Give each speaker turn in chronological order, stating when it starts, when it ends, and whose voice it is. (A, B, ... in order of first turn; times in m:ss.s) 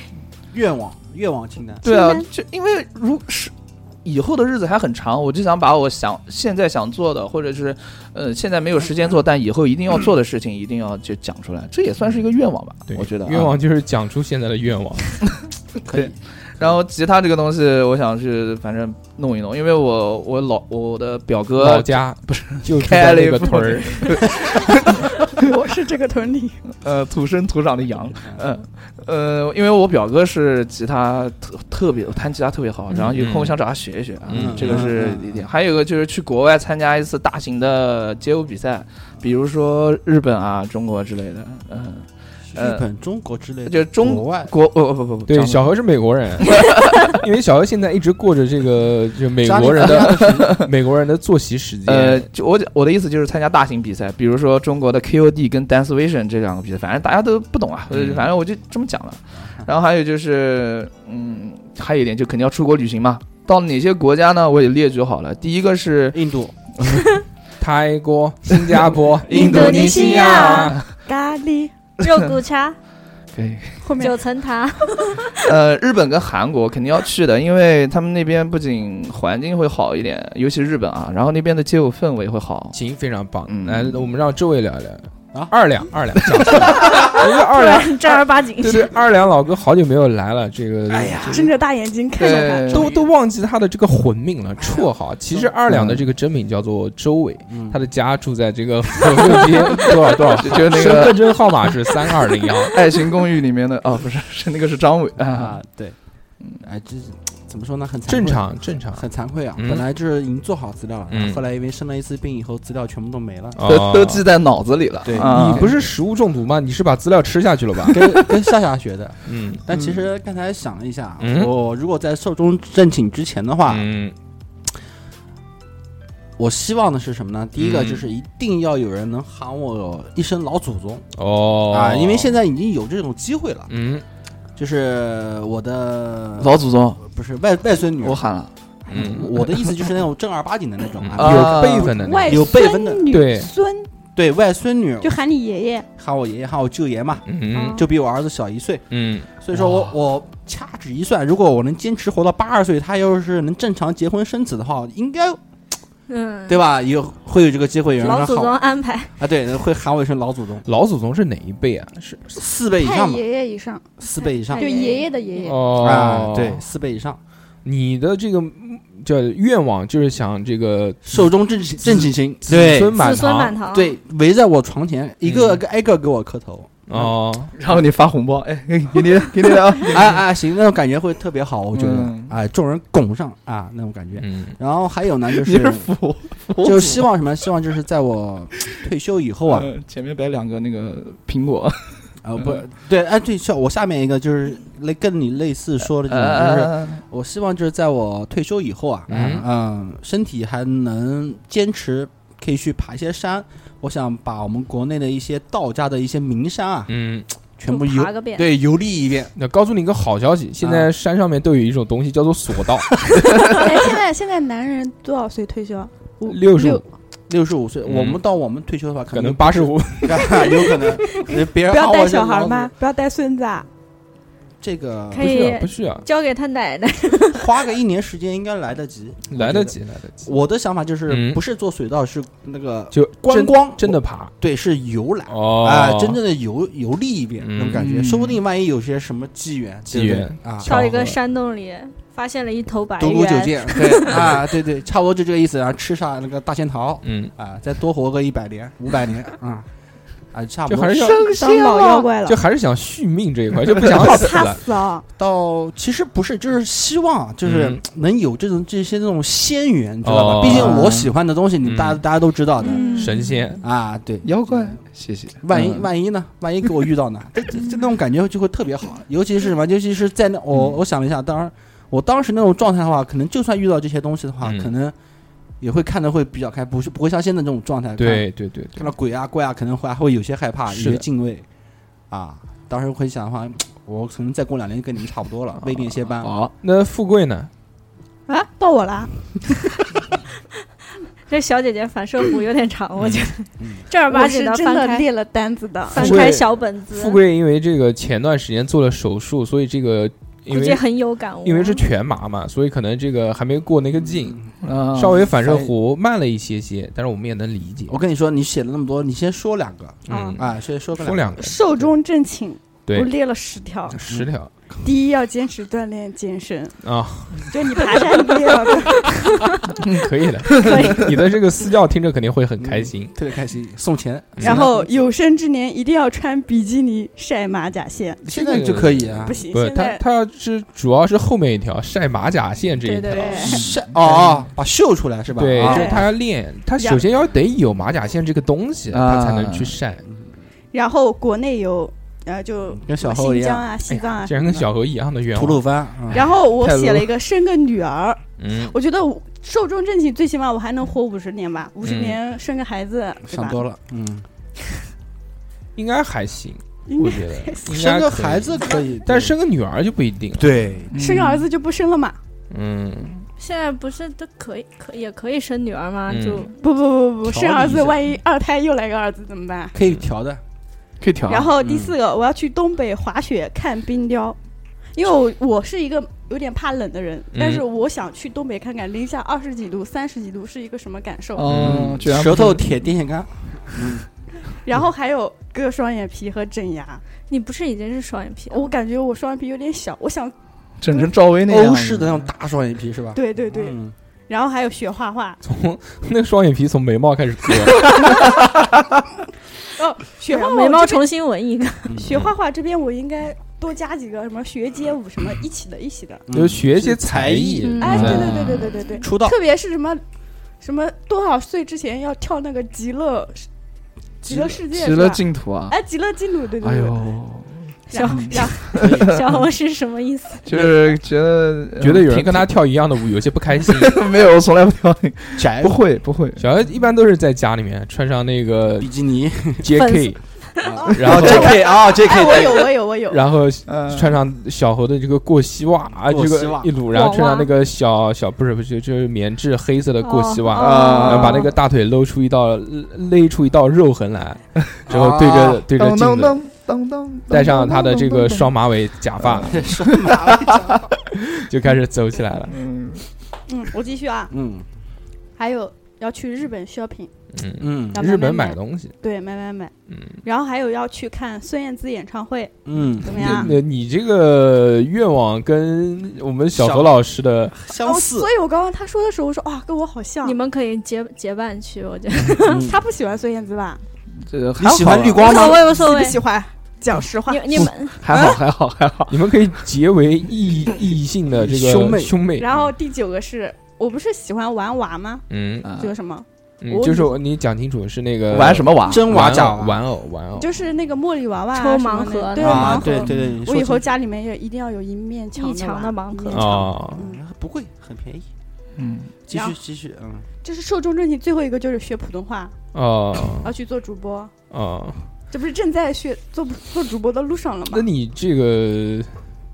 0:00.5-0:01.8 A
0:01.8-0:03.5 B
0:01.8-0:02.3 C
0:04.0-0:13.6 B
0:12.9-0:15.2 D
0:15.9-0:16.8 A
0:15.9-0:25.4 B
0:21.6-0:24.2 D
0:25.4-0:26.6 C
0:26.8-0:42.8 B
0:33.0-0:33.6 D
0:34.3-0:34.9 D
0:34.3-0:35.5 A
0:42.5-0:44.5 A
0:43.7-0:45.7 B
0:45.3-0:52.3 D
0:49.4-0:50.6 A
0:49.7-0:50.7 B
0:51.9-1:06.2 B
0:57.9-0:58.3 D
1:06.1-1:06.5 A
1:06.8-1:07.1 B
1:07.6-1:10.8 D
1:08.5-1:10.0 B
1:09.3-1:11.7 C
1:09.3-1:10.8 E
1:12.0-1:12.8 E
1:12.0-1:12.3 B
1:13.3-1:13.8 B
1:13.8-1:14.2 C
1:14.0-1:15.4 E
1:15.4-1:22.8 B
1:22.7-1:31.5 D
1:23.5-1:24.0 B
1:26.8-1:28.9 E
1:30.9-1:31.5 A
1:31.2-1:32.9 C
1:32.2-1:33.0 B
1:32.7-1:42.8 D
1:34.7-1:36.0 A
1:37.5-1:37.8 A
1:40.4-1:41.7 B
1:42.7-1:45.6 B
1:45.2-1:46.0 A
1:46.5-1:53.6 A
1:48.1-1:49.9 D
1:51.1-1:51.4 D
1:53.6-1:54.3 D
1:53.6-1:55.7 B
1:55.0-1:55.8 A
1:55.2-1:58.2 D
1:57.9-2:03.9 A
1:59.3-1:59.7 D
2:01.2-2:01.5 D
2:03.7-2:04.2 D
2:06.4-2:11.1 A
2:07.6-2:08.1 D
2:11.2-2:12.4 D
2:11.7-2:13.7 A
2:13.7-2:14.0 D
2:14.6-2:18.2 A
2:16.4-2:17.0 B
2:18.0-2:18.5 B
2:18.8-2:23.1 A
2:18.9-2:19.4 D
2:19.4-2:19.7 B
2:21.0-2:22.5 D
2:21.2-2:21.9 B
2:21.8-2:23.9 C
2:23.1-2:23.5 D
2:24.2-2:25.1 A
2:25.0-2:25.9 C
2:26.0-2:28.9 A
2:27.3-2:27.8 D
2:27.6-2:27.8 E
2:28.9-2:29.3 D
2:29.4-2:35.4 A
2:29.6-2:29.8 B
2:36.1-2:36.6 E
2:36.5-2:38.6 A
2:38.0-2:39.1 E
2:39.2-2:40.7 A
2:40.6-2:42.4 D
2:42.3-2:43.2 A
2:42.8-2:44.0 C
2:44.0-2:44.8 A
2:44.5-2:45.1 E
2:44.5-2:45.6 C
2:45.4-2:46.6 D
2:45.7-2:47.2 A
2:47.6-2:51.3 D
2:51.1-2:53.1 A
2:51.8-2:53.6 D
2:53.0-2:54.0 E
2:53.7-2:57.1 A
2:55.2-2:55.6 D
2:56.9-2:57.5 D
2:57.6-3:00.2 B
2:59.8-3:05.9 A
3:01.7-3:02.4 B
3:04.2-3:04.6 D
3:05.3-3:07.1 B
3:06.6-3:09.7 A
3:09.5-3:12.6 B
3:12.2-3:26.9 A
3:16.0-3:17.0 B
3:19.1-3:19.5 D
3:26.9-3:27.3 D
3:27.6-3:29.3 A
3:27.7-3:28.5 E
3:29.4-3:33.0 D
3:30.6-3:30.9 A
3:33.5-3:36.8 C
3:36.3-3:36.8 D
3:37.3-3:42.7 A
3:37.8-3:38.2 D
3:39.1-3:40.8 D
3:41.7-3:43.7 C
3:44.6-3:45.3 A
3:45.1-3:47.5 E
3:45.2-3:46.1 D
3:47.3-4:00.7 A
3:49.3-3:50.3 D
3:51.1-3:51.4 D
3:52.9-3:54.3 D
3:55.3-3:56.2 D
3:57.4-3:57.8 D
3:57.8-3:58.4 B
3:59.9-4:01.2 D
4:00.6-4:04.4 E
4:03.0-4:09.7 A
4:07.0-4:07.3 D
4:10.3-4:11.3 A
4:10.7-4:11.3 D
4:11.1-4:12.0 B
4:11.3-4:12.4 C
4:12.2-4:14.6 D
4:13.8-4:15.0 C
4:15.2-4:23.0 A
4:17.4-4:17.8 D
4:20.0-4:20.9 D
4:20.4-4:21.1 B
4:21.6-4:22.0 D
4:22.6-4:23.3 C
4:22.7-4:23.3 E
4:23.0-4:23.6 D
4:23.6-4:24.8 A
4:24.2-4:25.9 B
4:25.4-4:35.0 A
4:34.4-4:34.7 D
4:35.6-4:41.4 A
4:38.0-4:38.9 D
4:40.7-4:41.0 D
4:42.1-4:46.3 A
4:46.2-4:46.5 B
4:46.6-4:47.5 D
4:48.3-4:49.5 C
4:51.3-4:55.1 E
4:54.1-4:56.0 C
4:55.9-4:57.2 E
4:55.9-5:00.8 D
5:00.5-5:01.8 E
5:01.4-5:08.0 D
5:04.1-5:04.5 A
5:04.6-5:05.2 B
5:05.0-5:05.7 A
5:07.9-5:11.4 A
5:10.1-5:11.8 D
5:10.1-5:10.4 C
5:11.4-5:14.0 C
5:13.9-5:14.5 D
5:14.8-5:16.8 C
5:16.8-5:17.6 D
5:17.4-5:19.1 C
5:19.3-5:19.6 E
5:19.9-5:20.9 B
5:19.9-5:23.1 D
5:20.6-5:21.1 E
5:22.6-5:24.8 A
5:24.4-5:24.7 D
5:24.4-5:30.0 C
5:28.2-5:29.4 A
5:28.2-5:34.4 D
5:32.8-5:33.6 E
5:33.1-5:33.6 C
5:33.4-5:36.0 A
5:35.3-5:40.0 D
5:35.6-5:36.1 C
5:36.8-5:37.0 C
5:38.9-5:39.8 B
5:40.7-5:44.6 C
5:42.8-5:43.7 A
5:43.9-5:45.6 D
5:45.3-5:46.2 A
5:46.1-5:53.6 C
5:46.6-5:47.1 B
5:48.4-5:48.7 D
5:51.8-5:52.2 D
5:53.3-5:54.2 A
5:55.8-6:00.6 D
5:56.9-5:57.8 C
5:57.7-5:59.3 A
6:00.4-6:00.9 A
6:00.9-6:01.4 B
6:00.9-6:02.2 C
6:02.5-6:03.3 D
6:03.4-6:06.6 E
6:06.1-6:06.5 D
6:06.6-6:09.7 C
6:09.7-6:10.4 A
6:11.0-6:11.5 B
6:11.3-6:14.4 C
6:11.6-6:12.0 A
6:14.9-6:21.5 C
6:17.3-6:17.6 D
6:21.4-6:22.8 B
6:21.5-6:22.0 D
6:21.5-6:24.1 A
6:24.6-6:27.0 C
6:27.3-6:28.7 E
6:28.5-6:30.3 C
6:30.8-6:32.3 B
6:31.5-6:33.9 A
6:33.1-6:33.8 C
6:34.3-6:35.4 C
6:35.4-6:38.2 D
6:39.8-6:41.0 C
6:40.3-6:41.9 E
6:41.9-6:42.2 A
6:42.0-6:46.2 C
6:46.3-6:48.3 A
6:46.3-6:48.5 D
6:47.6-6:48.2 E
6:47.8-6:50.0 C
6:48.1-6:48.7 B
6:49.0-6:49.4 A
6:50.6-6:53.5 C
6:54.2-6:54.6 A
6:54.2-6:57.0 C
6:54.7-6:55.7 B
6:56.6-6:59.2 B
6:57.9-6:58.7 C
6:57.9-7:00.5 E
6:58.8-6:59.2 A
7:00.5-7:02.5 B
7:01.8-7:04.0 D
7:03.6-7:06.5 B
7:05.4-7:05.8 A
7:06.4-7:08.9 D
7:08.8-7:09.7 A
7:09.6-7:10.2 D
7:09.7-7:10.7 E
7:10.6-7:12.7 A
7:10.8-7:13.3 C
7:10.9-7:11.7 D
7:13.1-7:26.4 D
7:13.7-7:14.2 B
7:16.1-7:16.7 A
7:16.9-7:17.5 E
7:20.0-7:21.5 E
7:20.6-7:21.5 B
7:20.7-7:21.3 C
7:24.9-7:25.6 A
7:25.8-7:28.0 B
7:27.3-7:29.7 D
7:29.3-7:30.6 B
7:29.4-7:30.9 A
7:31.4-7:32.6 D
7:32.5-7:33.0 B
7:33.5-7:34.3 C
7:34.3-7:34.6 A
7:35.4-7:37.1 C
7:37.3-7:39.0 D
7:37.6-7:38.0 A
7:37.9-7:39.7 C
7:39.9-7:40.2 D
7:40.2-7:43.5 C
7:42.7-7:43.5 A
7:43.1-7:47.6 D
7:46.6-7:47.0 A
7:47.5-7:48.3 A
7:47.8-7:50.4 C
7:50.2-7:52.7 E
7:52.4-7:52.8 A
7:52.5-7:53.8 C
7:54.3-7:55.4 B
7:54.6-7:55.7 A
7:55.2-7:57.7 C
7:55.2-7:56.2 E
7:57.3-7:58.0 E
7:57.5-7:59.3 B
7:58.1-7:58.4 D
7:59.1-8:02.6 D
8:01.3-8:02.2 A
8:02.4-8:05.2 C
8:05.3-8:05.7 D
8:05.6-8:05.9 B
8:05.8-8:07.2 C
8:06.6-8:10.6 D
8:08.3-8:09.2 B
8:08.8-8:09.8 A
8:10.4-8:17.2 C
8:11.5-8:13.0 E
8:12.4-8:13.9 A
8:15.4-8:16.7 E
8:16.3-8:17.0 D
8:17.0-8:18.3 A
8:18.8-8:19.1 B
8:19.3-8:20.3 A
8:19.3-8:19.6 C
8:20.4-8:22.5 C
8:22.7-8:23.5 D
8:23.4-8:24.3 C
8:24.5-8:25.0 D
8:25.3-8:27.9 C
8:27.7-8:29.2 D